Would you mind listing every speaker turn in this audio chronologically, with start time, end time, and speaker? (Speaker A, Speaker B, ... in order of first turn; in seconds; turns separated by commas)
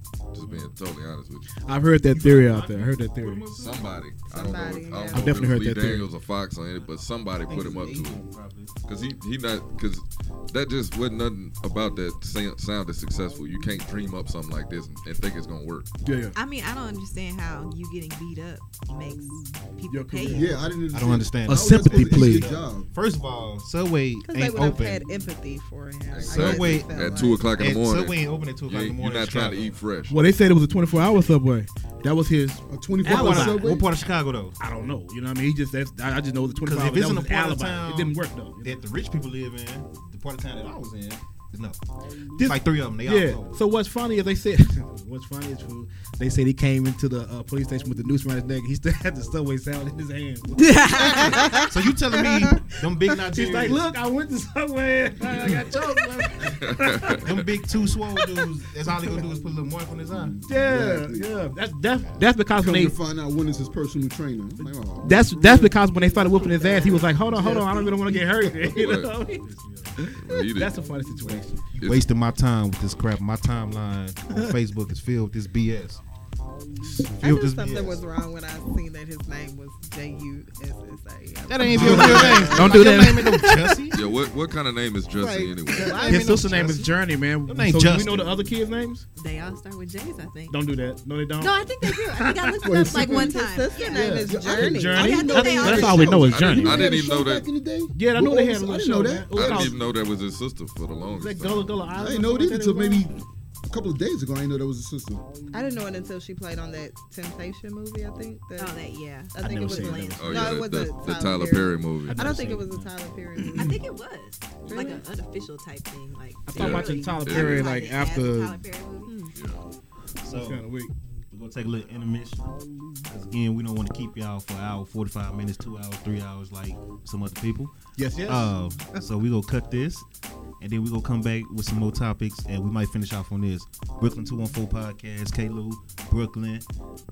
Speaker A: 0.3-1.5, Speaker B: 0.4-0.7, Speaker C: 1.6-3.4, Speaker B: 2.1-3.9, Speaker A: 3.5-8.2, Speaker D: 4.3-5.3, Speaker C: 5.1-6.1, Speaker B: 7.5-8.7, Speaker A: 8.8-15.9, Speaker C: 16.0-16.4, Speaker E: 16.3-20.6, Speaker C: 19.9-20.7, Speaker F: 20.3-22.9, Speaker B: 20.9-25.0, Speaker C: 21.5-22.5, Speaker D: 24.2-27.5, Speaker A: 26.1-30.2, Speaker B: 26.2-29.8, Speaker C: 30.1-33.7, Speaker F: 32.7-33.9, Speaker B: 33.0-34.6, Speaker C: 34.6-38.8, Speaker B: 36.6-41.8, Speaker C: 42.4-51.3, Speaker B: 42.4-43.6, Speaker E: 50.6-51.7, Speaker D: 50.8-52.6, Speaker B: 51.2-53.8, Speaker C: 53.3-57.2, Speaker A: 56.5-57.4, Speaker B: 57.2-60.4, Speaker C: 58.4-59.1, Speaker F: 60.1-61.3, Speaker C: 60.5-62.9, Speaker F: 62.5-68.5, Speaker C: 64.6-69.5, Speaker A: 68.6-69.1, Speaker B: 69.4-70.0, Speaker C: 70.0-71.9, Speaker A: 70.1-70.8, Speaker B: 71.8-76.0, Speaker B: 76.8-78.0, Speaker D: 77.2-83.0, Speaker B: 81.5-84.0, Speaker C: 81.7-83.8, Speaker F: 82.0-82.3, Speaker A: 83.9-86.0, Speaker E: 85.2-86.9, Speaker B: 85.7-86.9, Speaker C: 85.9-89.0, Speaker B: 87.5-88.5, Speaker E: 89.2-90.6, Speaker C: 90.5-92.9, Speaker E: 91.4-94.2, Speaker F: 92.6-93.4, Speaker D: 93.0-95.2, Speaker C: 93.9-96.9, Speaker F: 94.2-99.7, Speaker E: 94.9-96.4, Speaker A: 96.3-97.5, Speaker C: 97.9-99.8, Speaker A: 99.3-101.8, Speaker C: 101.1-103.0, Speaker F: 101.9-105.2, Speaker D: 105.5-108.7, Speaker E: 108.6-110.2, Speaker D: 109.3-113.8, Speaker C: 109.4-110.6, Speaker A: 110.2-112.3, Speaker C: 112.0-112.9, Speaker E: 113.5-119.3, Speaker C: 116.5-118.6, Speaker A: 116.5-117.7, Speaker D: 119.1-119.3, Speaker A: 119.3-119.6, Speaker B: 120.2-120.6, Speaker C: 120.2-120.9, Speaker B: 121.3-130.1, Speaker C: 128.0-128.5, Speaker B: 130.6-136.6